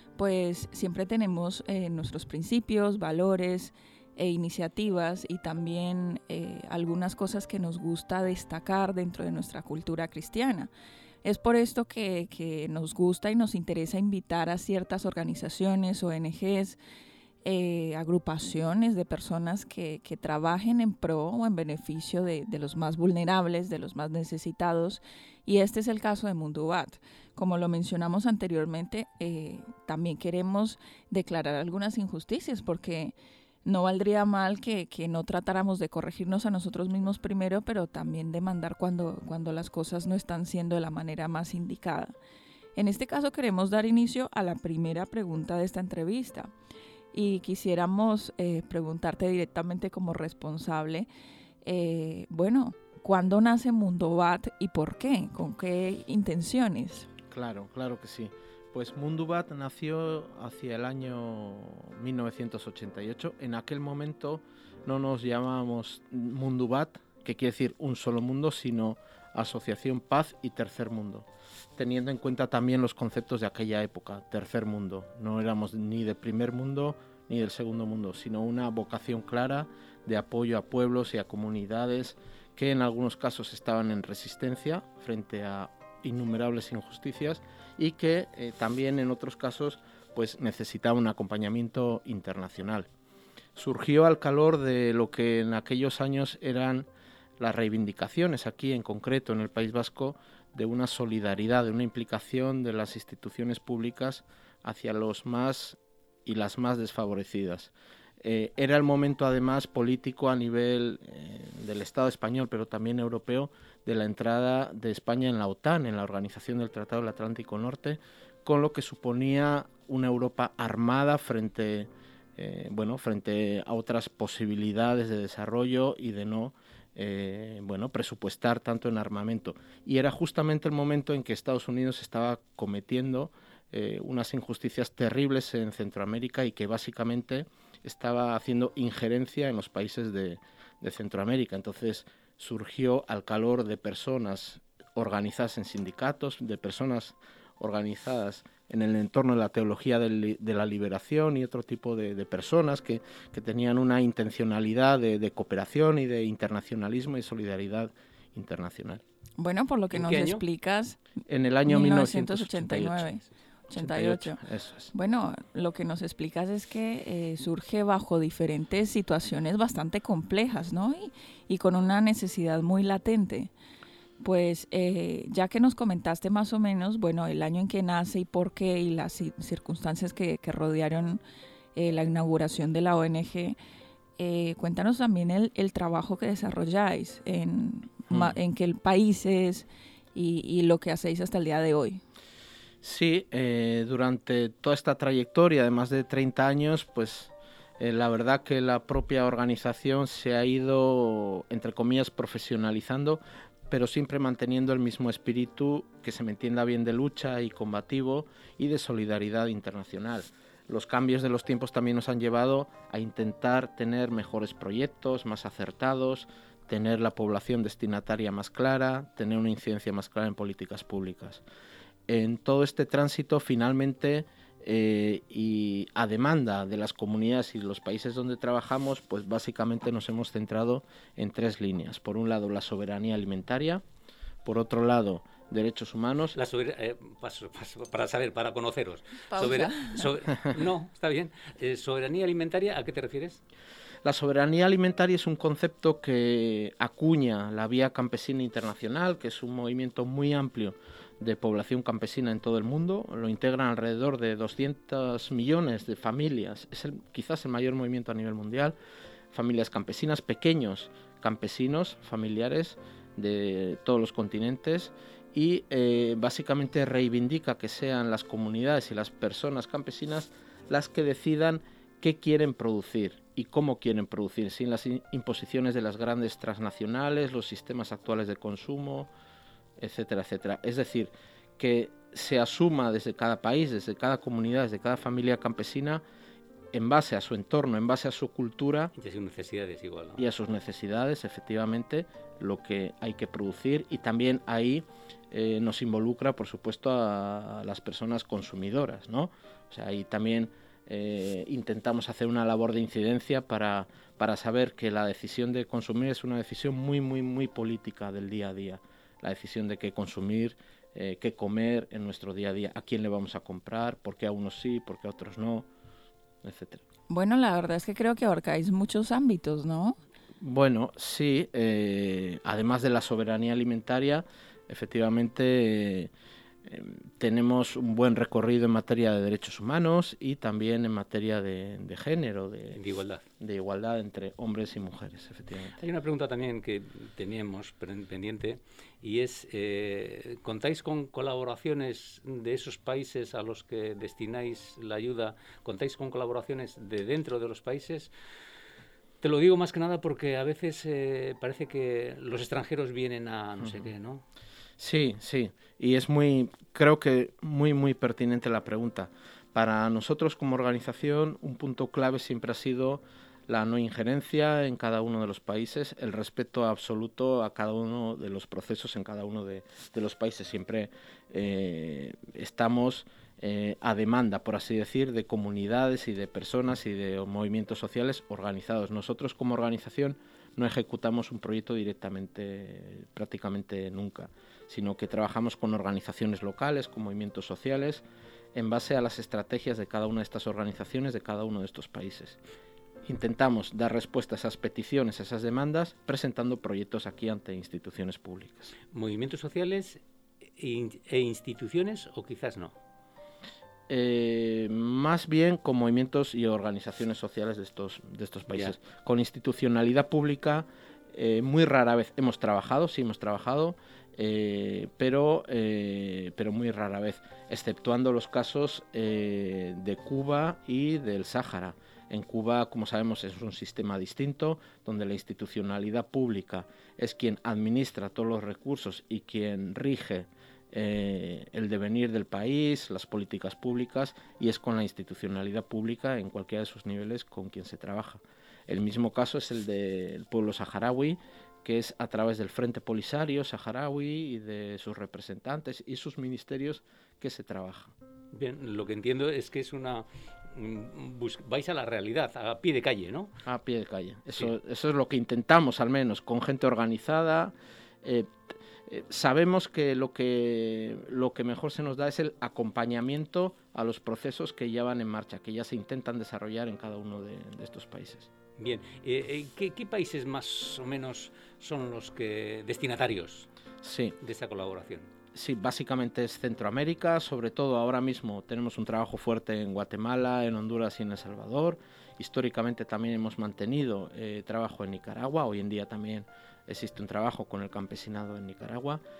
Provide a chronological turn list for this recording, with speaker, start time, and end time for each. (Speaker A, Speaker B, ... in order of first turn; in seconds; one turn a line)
Speaker A: 0.2-10.7
Speaker A: 11.2-16.8
Speaker A: 17.4-33.1
Speaker A: 33.6-42.1
Speaker A: 42.8-46.5
Speaker A: 47.1-51.1
Speaker A: 51.6-57.1
Speaker B: 57.3-92.9
Speaker B: 93.6-96.9
Speaker B: 97.4-159.0
Speaker A: 159.4-161.0
Speaker C: 159.9-160.4
Speaker B: 161.3-163.2
Speaker A: 161.7-164.4
Speaker B: 163.7-164.9
Speaker A: 164.9-173.5
Speaker A: 174.2-181.2
Speaker A: 181.8-183.6
Speaker A: 184.2-192.0
Speaker B: 188.1-188.4
Speaker B: 192.8-221.4
Speaker B: 222.1-233.8
Speaker B: 234.4-236.4
Speaker C: 236.4-243.4
Speaker A: 239.3-240.0
Speaker B: 244.0-258.8
Speaker B: 259.3-279.1
Speaker B: 279.8-286.0
Speaker B: 286.7-288.9
Speaker C: 289.0-290.2
Speaker B: 290.2-315.7
Speaker B: 316.4-316.8
Speaker A: 317.1-320.0
Speaker B: 320.4-326.1
Speaker B: 326.6-332.8
Speaker C: 332.7-333.2
Speaker B: 333.4-335.8
Speaker C: 335.8-348.1
Speaker C: 349.2-354.2
Speaker B: 354.8-392.4
Speaker B: 393.1-398.7
Speaker C: 398.9-400.0
Speaker C: 400.6-402.8
Speaker B: 403.9-447.9
Speaker C: 448.3-453.3
Speaker B: 453.4-458.4
Speaker B: 458.9-468.3
Speaker C: 468.6-473.5
Speaker B: 473.8-474.2
Speaker C: 474.2-475.1
Speaker B: 475.3-489.0